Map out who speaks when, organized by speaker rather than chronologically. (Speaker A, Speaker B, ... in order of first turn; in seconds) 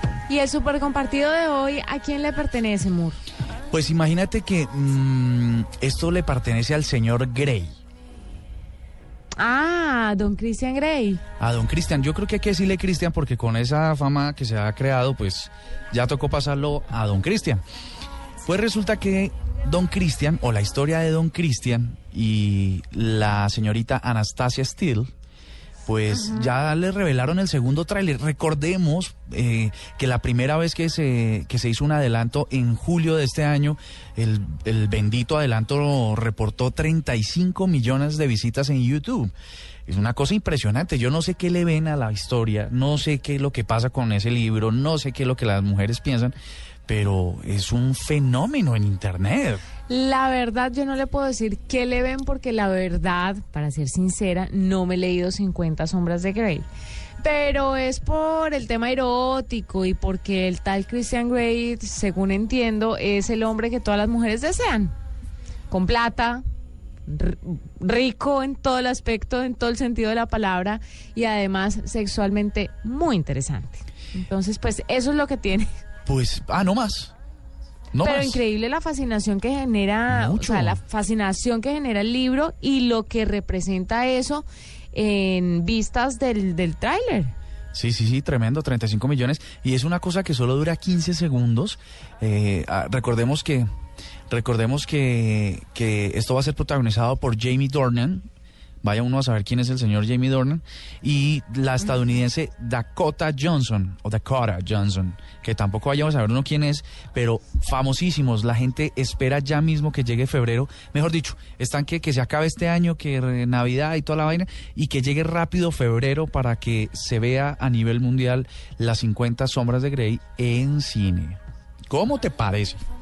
Speaker A: 0.3-3.2, 9.4-11.2, 49.9-56.7, 57.2-64.9, 65.7-66.4, 67.1-75.7, 78.0-87.3
Speaker B: 3.7-7.7, 11.4-17.6, 18.5-25.1, 25.9-39.3, 39.9-46.3, 46.9-49.7, 76.1-77.1, 77.9-78.4, 80.1-80.8, 87.7-93.7, 94.3-98.2, 98.8-122.8